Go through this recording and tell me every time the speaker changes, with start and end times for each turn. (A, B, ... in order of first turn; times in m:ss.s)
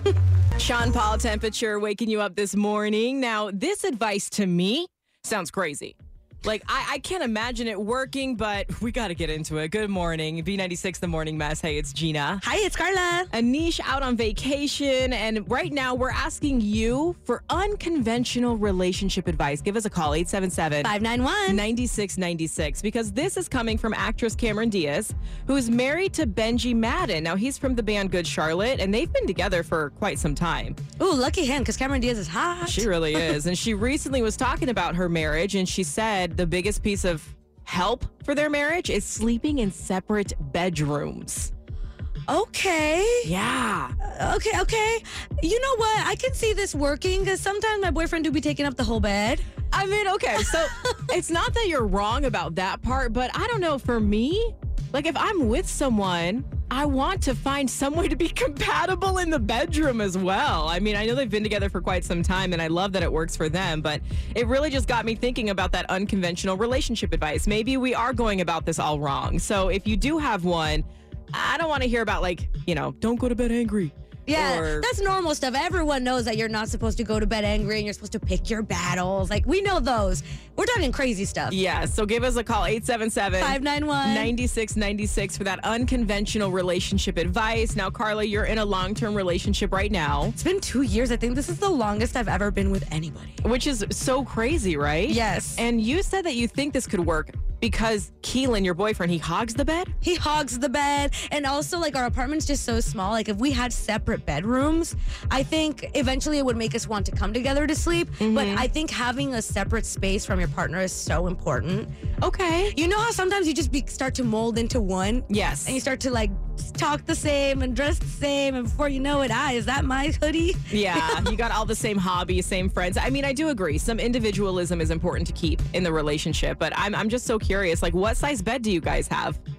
0:00.6-0:12.4 A
0:12.4-0:13.3 B
0:13.3-0:20.9 A
0:20.8-0:21.6 B
0:21.5-0:30.8 A
0:31.0-0:32.9 B
0:32.6-0:41.5 A
0:42.3-0:43.3 B
0:43.2-0:43.9 A
0:44.0-0:49.4 B
0:49.7-1:14.9 A
1:14.3-1:21.6 B
1:21.5-1:30.3 A
1:23.4-1:24.3 B
1:30.4-1:33.4 B
1:33.4-1:39.9 A
1:35.1-1:35.6 B
1:40.0-1:51.9 B
1:48.2-1:48.6 A
1:52.2-1:52.7 A
1:52.7-2:01.3 B
1:55.3-1:55.8 A
2:00.7-2:09.4 A